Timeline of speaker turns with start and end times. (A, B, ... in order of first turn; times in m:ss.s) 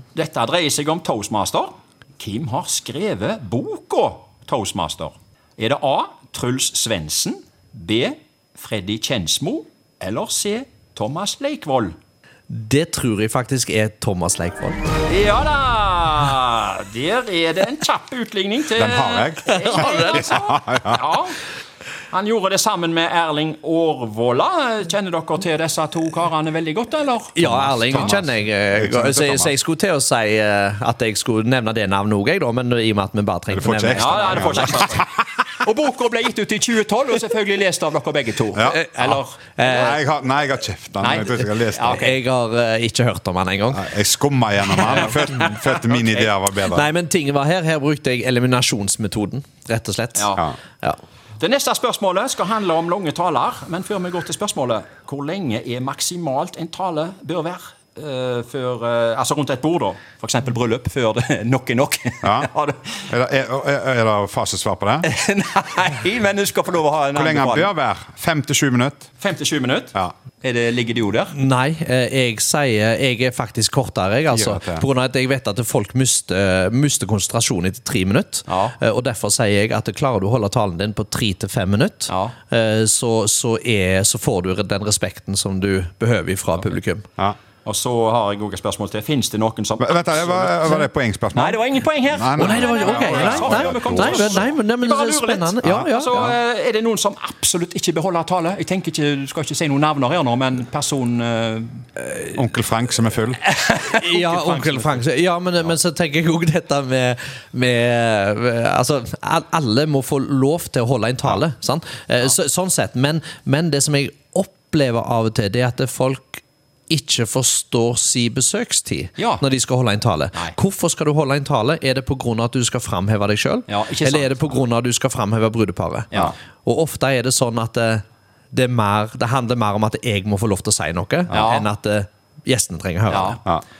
0:00.1-0:11.9 A
0:12.5-0:14.8 B
0:15.0-0:21.4 A
0:18.8-0:21.0 C
0:19.5-0:20.2 B
0:22.1-0:28.1 A
0:27.3-0:34.9 B
0:27.4-0:29.5 C
0:33.5-0:34.9 C
0:33.9-0:39.9 A
0:38.5-0:42.0 C
0:39.6-0:40.0 B
0:41.0-0:42.2 A
0:41.9-0:43.8 B
0:43.7-0:46.9 C
0:44.8-0:45.1 A
0:45.7-0:46.3 A
0:46.6-0:51.0 B
0:50.2-0:50.5 A
0:51.4-1:03.0 A
1:02.2-1:02.5 C
1:03.1-1:05.1 C
1:05.0-1:07.7 A
1:07.1-1:09.1 C
1:09.2-1:11.3 A
1:11.3-1:27.1 B
1:14.3-1:14.8 C
1:18.5-1:18.8 A
1:22.1-1:22.3 A
1:27.6-1:41.8 A
1:29.8-1:34.5 C
1:32.4-1:36.3 B
1:42.2-1:43.4 C
1:43.4-1:45.0 A
1:43.9-2:13.4 B
1:59.2-1:59.4 A
2:03.7-2:04.6 A
2:11.3-2:11.7 A
2:13.1-2:13.4 A